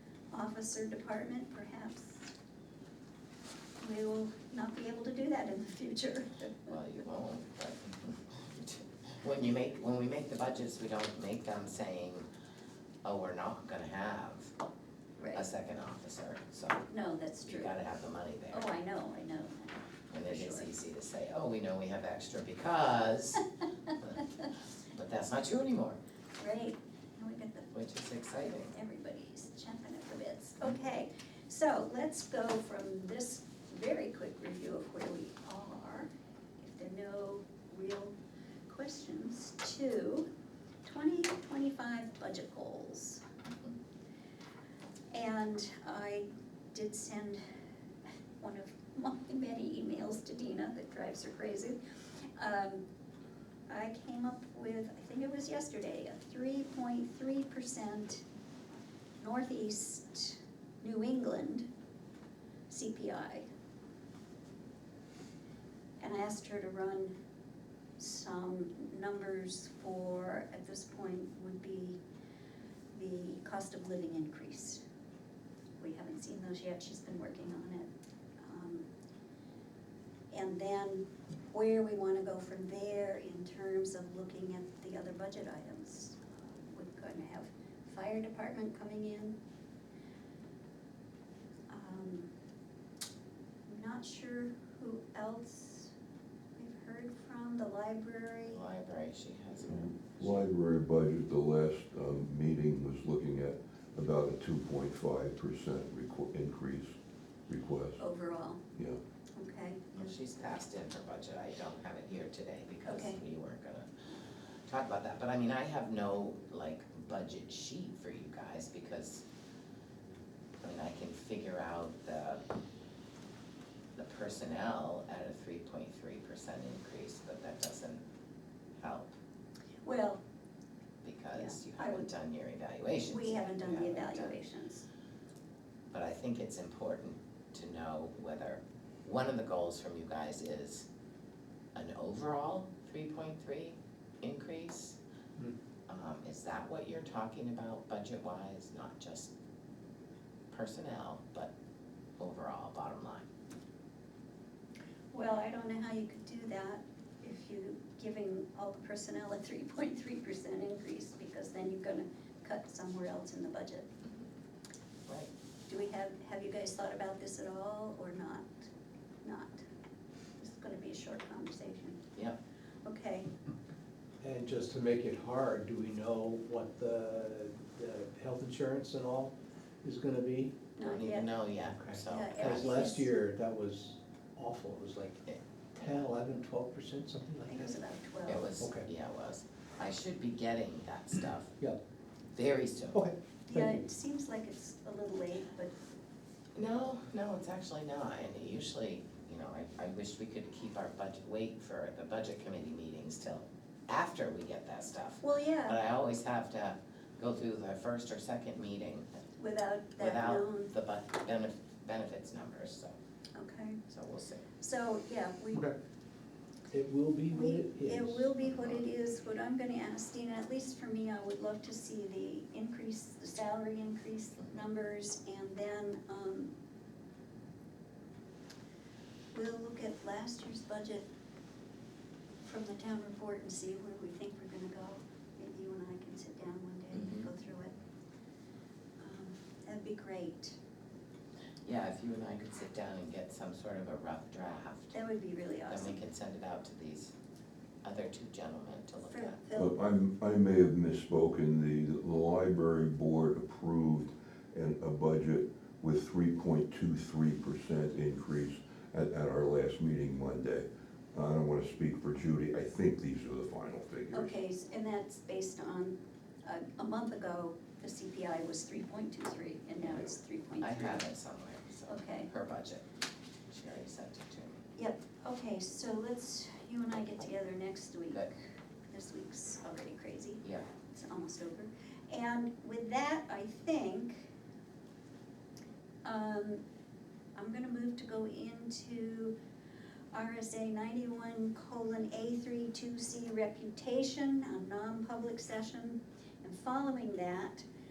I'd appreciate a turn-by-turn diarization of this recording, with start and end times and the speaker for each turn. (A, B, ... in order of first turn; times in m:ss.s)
0:00.3-0:02.3 A
0:03.8-0:06.7 A
0:06.7-0:12.3 B
0:13.0-0:14.5 B
0:15.2-0:15.4 A
0:15.3-0:16.9 B
0:16.9-0:17.7 A
0:17.4-0:18.7 B
0:18.5-0:20.7 A
0:20.1-0:23.5 B
0:24.9-0:26.0 B
0:26.4-0:27.8 A
0:27.7-0:28.7 B
0:28.5-0:36.1 A
0:36.6-0:38.2 A
0:38.7-0:40.3 A
0:40.8-0:43.2 A
0:45.1-0:47.4 A
0:48.4-0:51.8 A
0:52.4-0:52.8 A
0:53.7-0:58.2 A
0:59.2-1:01.7 A
1:02.7-1:03.4 A
1:06.0-1:07.1 A
1:08.0-1:12.0 A
1:12.9-1:14.8 A
1:15.8-1:17.9 A
1:18.4-1:18.9 A
1:20.3-1:29.4 A
1:31.7-1:32.3 A
1:33.7-1:35.9 A
1:36.6-1:38.6 A
1:38.5-1:40.4 B
1:39.6-1:47.0 C
1:47.5-1:48.0 C
1:48.0-1:48.6 A
1:49.4-1:50.1 A
1:49.9-1:53.9 B
1:52.9-1:53.2 A
1:54.7-1:59.2 B
2:00.6-2:02.4 B
2:04.0-2:08.0 B
2:08.8-2:09.1 B
2:09.8-2:10.2 A
2:11.0-2:14.4 B
2:11.3-2:12.1 A
2:13.1-2:14.9 A
2:15.9-2:20.9 B
2:21.8-2:25.0 B
2:25.9-2:29.3 B
2:30.5-2:31.5 B
2:32.2-2:33.2 B
2:35.1-2:43.9 A
2:45.7-2:48.7 A
2:49.2-2:49.6 A
2:50.4-2:52.0 A
2:52.8-2:53.3 A
2:54.2-3:00.6 D
3:00.8-3:01.3 A
3:00.8-3:02.9 B
3:01.7-3:07.8 D
3:02.1-3:03.1 A
3:07.4-3:08.4 A
3:08.3-3:11.5 B
3:08.6-3:08.9 D
3:12.3-3:13.0 B
3:12.9-3:13.8 D
3:13.5-3:15.7 A
3:16.6-3:29.1 B
3:25.2-3:25.8 A
3:29.4-3:30.7 A
3:30.0-3:33.0 B
3:33.4-3:33.8 A
3:33.9-3:34.5 B
3:34.6-3:35.6 A
3:36.7-3:38.3 D
3:37.3-3:46.5 A
3:49.3-3:51.1 A
3:52.4-3:57.8 A
3:56.9-3:57.3 B
3:59.0-4:00.6 A
4:01.7-4:04.9 B
4:04.9-4:06.0 A
4:05.7-4:07.1 B
4:07.8-4:09.4 B
4:09.1-4:09.8 A
4:09.5-4:24.4 C
4:24.1-4:31.0 A
4:30.6-4:32.8 B
4:31.9-4:32.3 A
4:33.5-4:34.6 B
4:34.8-4:38.3 A
4:38.9-4:44.3 A
4:46.0-4:46.6 A
4:47.4-4:49.3 A
4:50.1-4:57.6 A